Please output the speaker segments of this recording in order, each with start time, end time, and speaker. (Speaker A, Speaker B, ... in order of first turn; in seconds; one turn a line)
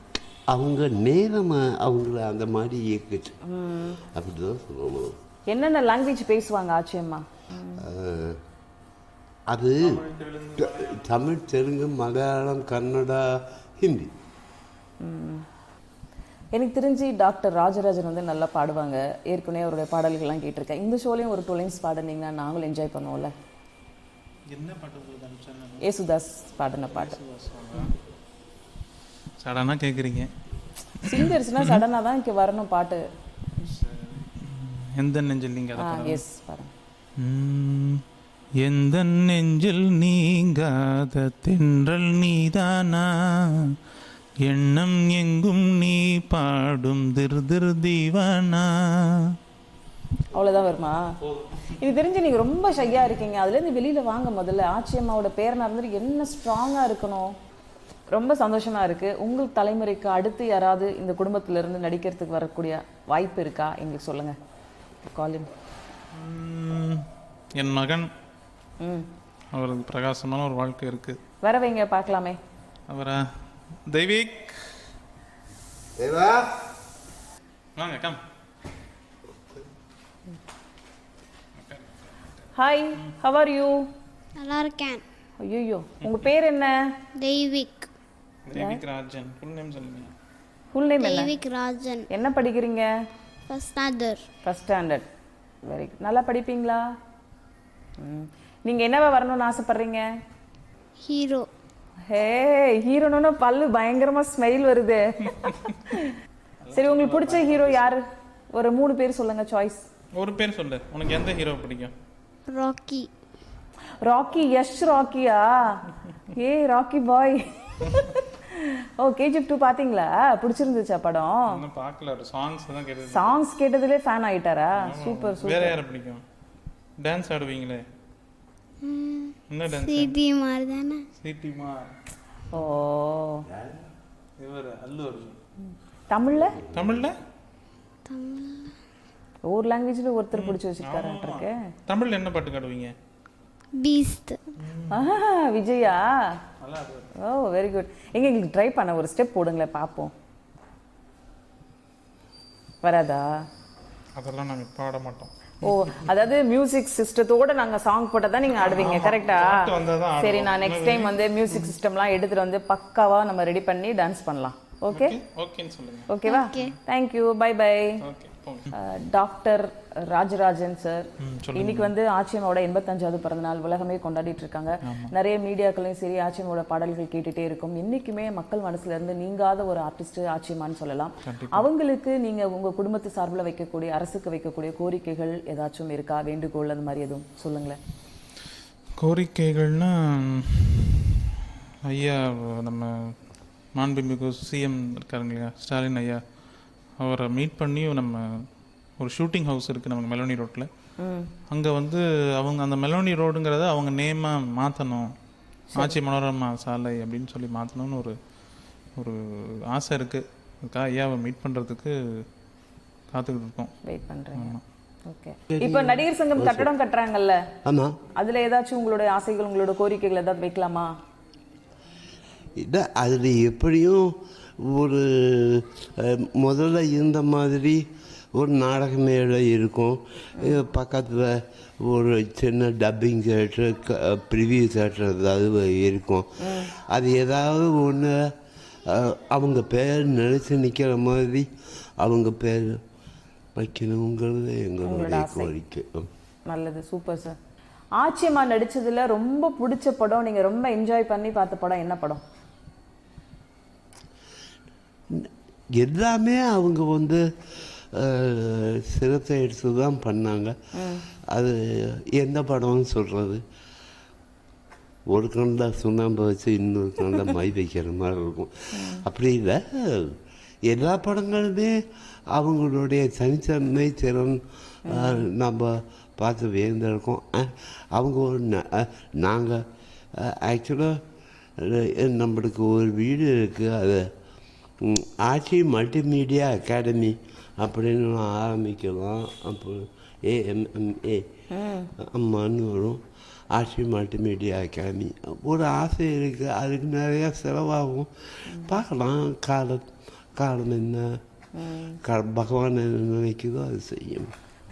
Speaker A: 0.5-3.4
Speaker B: 3.5-4.0
Speaker A: 4.0-5.2
Speaker B: 5.5-7.8
Speaker A: 7.8-8.4
Speaker A: 9.5-10.1
Speaker C: 9.8-11.1
Speaker A: 10.6-14.1
Speaker B: 15.0-15.4
Speaker B: 16.5-23.3
Speaker C: 24.5-25.9
Speaker B: 25.8-27.1
Speaker C: 26.9-28.0
Speaker C: 29.4-30.3
Speaker C: 31.0-31.8
Speaker B: 31.0-33.0
Speaker C: 33.6-36.2
Speaker B: 35.8-36.7
Speaker C: 37.2-38.0
Speaker C: 38.6-43.8
Speaker C: 44.4-49.4
Speaker B: 50.3-51.1
Speaker B: 51.6-57.3
Speaker B: 58.1-64.4
Speaker B: 65.0-65.5
Speaker C: 66.1-68.1
Speaker B: 68.8-69.1
Speaker C: 69.5-71.2
Speaker B: 71.4-72.4
Speaker C: 72.9-73.2
Speaker C: 73.9-74.7
Speaker A: 76.0-76.6
Speaker C: 77.8-78.2
Speaker C: 81.6-82.2
Speaker B: 82.5-83.8
Speaker D: 84.4-85.0
Speaker B: 85.4-86.7
Speaker C: 86.0-86.3
Speaker D: 87.2-87.9
Speaker C: 88.5-90.1
Speaker B: 88.5-88.8
Speaker B: 90.7-91.4
Speaker D: 91.0-92.1
Speaker B: 92.1-92.9
Speaker D: 93.5-94.2
Speaker B: 94.4-95.1
Speaker B: 95.7-96.8
Speaker B: 98.0-100.0
Speaker D: 101.0-101.5
Speaker B: 102.1-106.2
Speaker C: 106.6-108.0
Speaker B: 106.7-109.8
Speaker C: 110.1-111.9
Speaker D: 112.5-113.1
Speaker B: 114.0-121.6
Speaker C: 121.5-123.4
Speaker B: 123.1-125.8
Speaker C: 124.8-126.2
Speaker C: 127.0-127.8
Speaker D: 128.8-131.1
Speaker C: 129.5-130.2
Speaker C: 131.2-131.9
Speaker B: 132.5-133.5
Speaker A: 133.5-133.8
Speaker C: 134.4-135.4
Speaker B: 136.1-136.6
Speaker A: 136.3-137.1
Speaker C: 136.7-137.2
Speaker D: 138.1-138.8
Speaker B: 139.5-141.6
Speaker C: 140.3-142.9
Speaker D: 143.8-144.4
Speaker C: 144.6-145.1
Speaker B: 144.9-146.1
Speaker C: 146.6-147.1
Speaker B: 147.2-150.1
Speaker B: 152.8-153.2
Speaker C: 154.2-156.1
Speaker B: 155.6-165.2
Speaker C: 158.6-161.3
Speaker C: 164.9-166.1
Speaker B: 166.1-168.0
Speaker D: 166.2-166.8
Speaker C: 168.0-168.7
Speaker B: 168.7-171.0
Speaker C: 171.2-171.9
Speaker B: 171.6-187.8
Speaker C: 174.8-175.1
Speaker C: 181.2-181.7
Speaker C: 189.0-191.3
Speaker C: 191.9-193.2
Speaker C: 193.8-196.2
Speaker C: 197.0-198.5
Speaker C: 199.0-200.7
Speaker B: 201.0-201.3
Speaker C: 201.5-205.1
Speaker C: 205.8-208.1
Speaker C: 209.0-211.9
Speaker C: 213.1-213.7
Speaker B: 213.9-214.6
Speaker C: 214.4-214.6
Speaker B: 215.1-217.4
Speaker A: 215.5-216.7
Speaker A: 217.6-218.0
Speaker B: 218.2-220.9
Speaker A: 222.6-227.8
Speaker A: 228.3-238.3
Speaker B: 236.4-236.7
Speaker A: 238.9-241.5
Speaker A: 242.0-242.8
Speaker A: 243.6-246.1
Speaker B: 244.8-245.5
Speaker B: 246.5-247.3
Speaker B: 248.0-252.2
Speaker A: 255.1-260.6
Speaker B: 260.8-261.1
Speaker A: 261.3-263.4
Speaker A: 265.1-271.7
Speaker B: 268.7-269.1
Speaker A: 272.3-279.6
Speaker B: 274.9-275.3
Speaker A: 280.2-281.0
Speaker A: 281.6-284.0
Speaker A: 284.8-291.3
Speaker B: 291.5-291.9
Speaker A: 292.0-293.0
Speaker A: 293.5-301.2
Speaker B: 298.5-298.8
Speaker B: 301.6-302.0
Speaker A: 302.0-304.3